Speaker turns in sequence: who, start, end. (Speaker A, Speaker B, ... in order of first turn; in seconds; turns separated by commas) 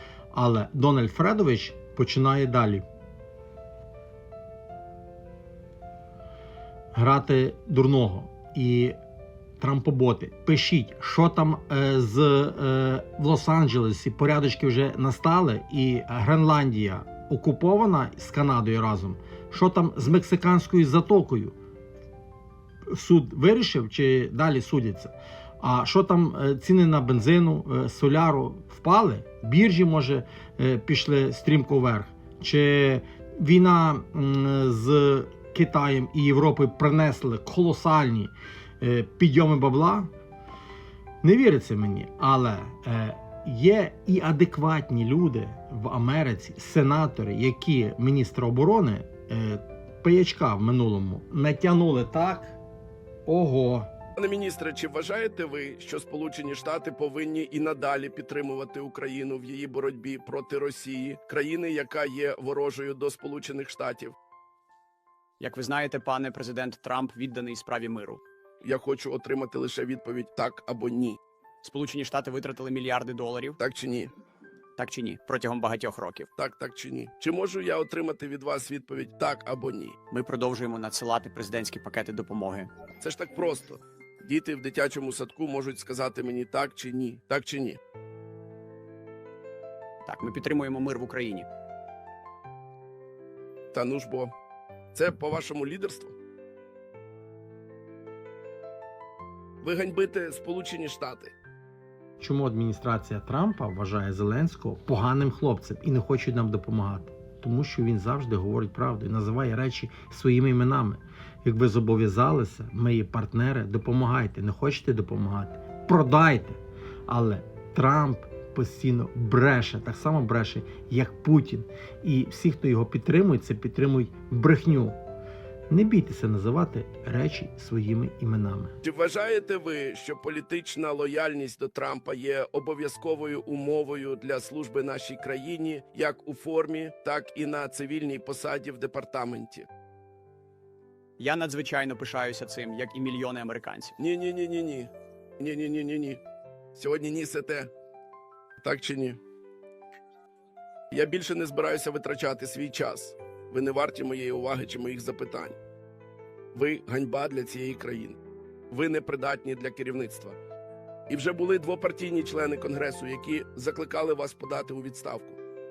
Speaker A: 0.3-2.9, Speaker A: 6.9-9.0, Speaker A: 9.6-21.6, Speaker A: 22.9-40.1, Speaker A: 41.2-52.6, Speaker A: 53.2-53.9, Speaker B: 54.2-64.2, Speaker C: 65.4-68.2, Speaker B: 68.6-71.2, Speaker C: 71.6-73.6, Speaker B: 73.6-74.1, Speaker C: 74.8-76.3, Speaker B: 76.3-80.0, Speaker C: 80.1-82.7, Speaker B: 83.0-87.8, Speaker C: 90.0-91.5, Speaker B: 93.7-94.3, Speaker B: 94.9-96.2, Speaker B: 99.6-101.3, Speaker A: 102.2-125.0, Speaker A: 125.7-128.8, Speaker B: 128.8-139.7, Speaker C: 141.2-143.9, Speaker B: 144.0-146.2, Speaker B: 146.8-147.7, Speaker B: 148.6-149.2, Speaker B: 150.9-155.6, Speaker B: 156.5-158.2, Speaker B: 158.7-160.4, Speaker B: 161.1-165.4